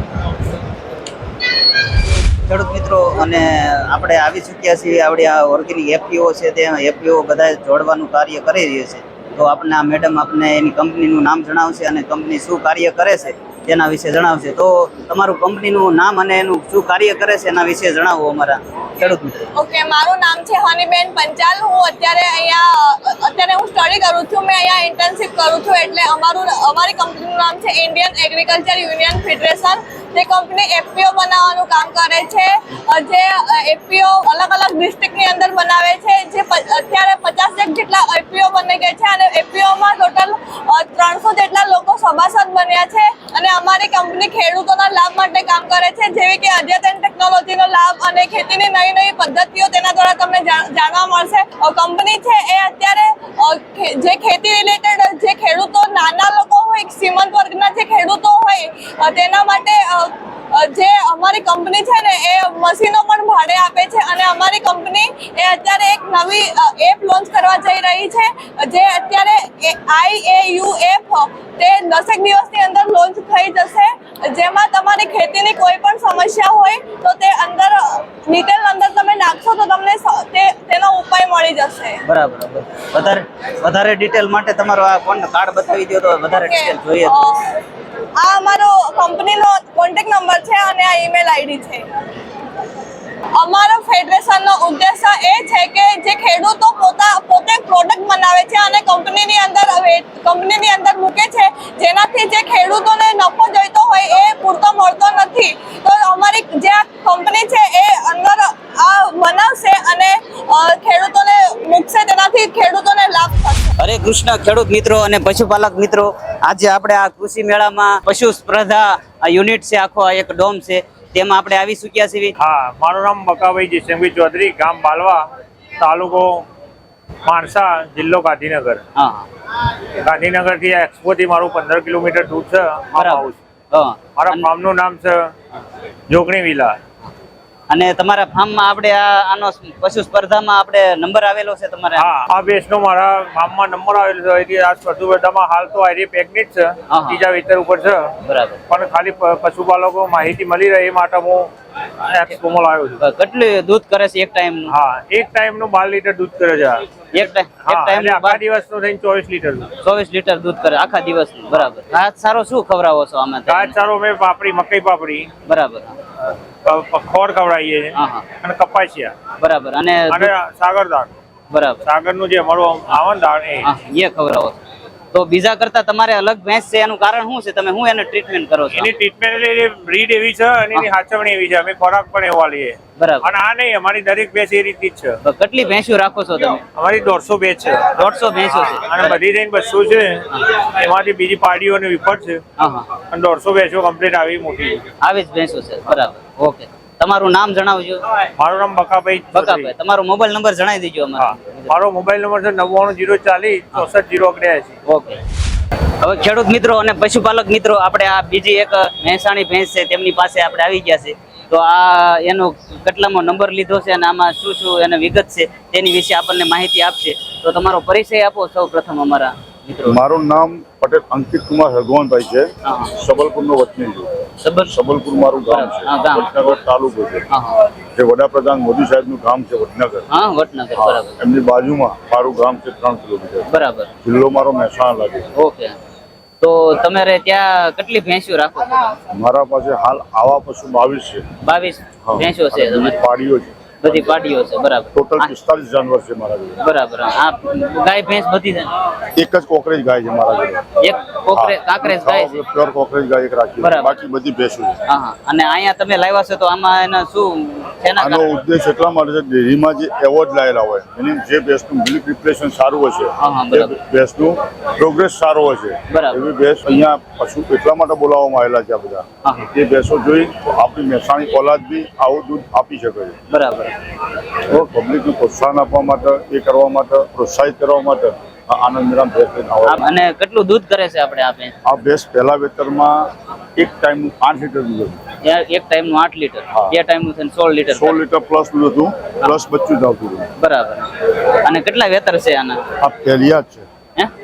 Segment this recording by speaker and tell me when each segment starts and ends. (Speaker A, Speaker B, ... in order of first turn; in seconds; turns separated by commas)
Speaker A: 2.5-19.6, Speaker B: 19.6-82.0, Speaker A: 82.0-87.2, Speaker B: 86.3-87.6, Speaker B: 88.2-92.0, Speaker B: 93.3-113.7, Speaker A: 113.8-122.3, Speaker C: 122.4-125.3, Speaker C: 125.8-126.5, Speaker C: 127.2-128.8, Speaker A: 129.0-129.3, Speaker C: 130.0-133.4, Speaker A: 133.0-134.5, Speaker C: 134.2-135.3, Speaker C: 136.1-136.8, Speaker A: 137.7-142.1, Speaker C: 142.0-148.1, Speaker A: 146.9-147.2, Speaker A: 148.2-148.6, Speaker C: 148.7-151.5, Speaker C: 152.1-153.0, Speaker A: 153.0-154.7, Speaker C: 154.7-156.8, Speaker A: 157.1-158.4, Speaker C: 157.7-159.7, Speaker A: 159.8-163.8, Speaker C: 163.5-165.3, Speaker A: 165.5-165.9, Speaker C: 166.7-169.1, Speaker A: 168.0-168.2, Speaker A: 169.4-170.3, Speaker C: 170.1-171.1, Speaker A: 171.5-171.8, Speaker C: 171.8-173.7, Speaker A: 173.6-174.6, Speaker A: 175.1-178.9, Speaker C: 178.7-185.2, Speaker A: 183.0-183.3, Speaker A: 185.2-186.6, Speaker C: 186.7-192.4, Speaker A: 188.0-189.2, Speaker A: 192.6-192.9, Speaker C: 193.1-194.8, Speaker A: 195.0-198.0, Speaker C: 198.4-199.7, Speaker A: 199.3-201.8, Speaker C: 201.2-204.8, Speaker A: 204.9-205.2, Speaker A: 206.0-220.0, Speaker D: 219.9-227.2, Speaker A: 222.6-222.9, Speaker A: 224.4-224.7, Speaker A: 225.5-226.6, Speaker A: 227.3-227.6, Speaker D: 227.9-230.1, Speaker A: 230.1-231.2, Speaker D: 230.8-233.5, Speaker A: 233.5-233.9, Speaker D: 234.0-235.3, Speaker A: 235.3-235.8, Speaker A: 236.4-239.0, Speaker D: 239.1-241.3, Speaker A: 241.4-243.0, Speaker D: 242.1-244.2, Speaker A: 243.8-245.3, Speaker D: 244.9-246.6, Speaker A: 246.6-248.7, Speaker D: 249.2-250.7, Speaker A: 250.8-252.4, Speaker D: 251.3-254.8, Speaker A: 253.6-254.0, Speaker A: 254.9-258.3, Speaker D: 258.0-273.2, Speaker A: 263.2-263.8, Speaker A: 265.9-266.2, Speaker A: 269.2-269.5, Speaker A: 273.3-273.8, Speaker D: 274.5-279.8, Speaker A: 279.7-281.6, Speaker D: 281.6-285.0, Speaker A: 285.2-288.0, Speaker D: 287.7-290.3, Speaker A: 290.4-290.9, Speaker A: 291.4-292.6, Speaker D: 292.8-293.7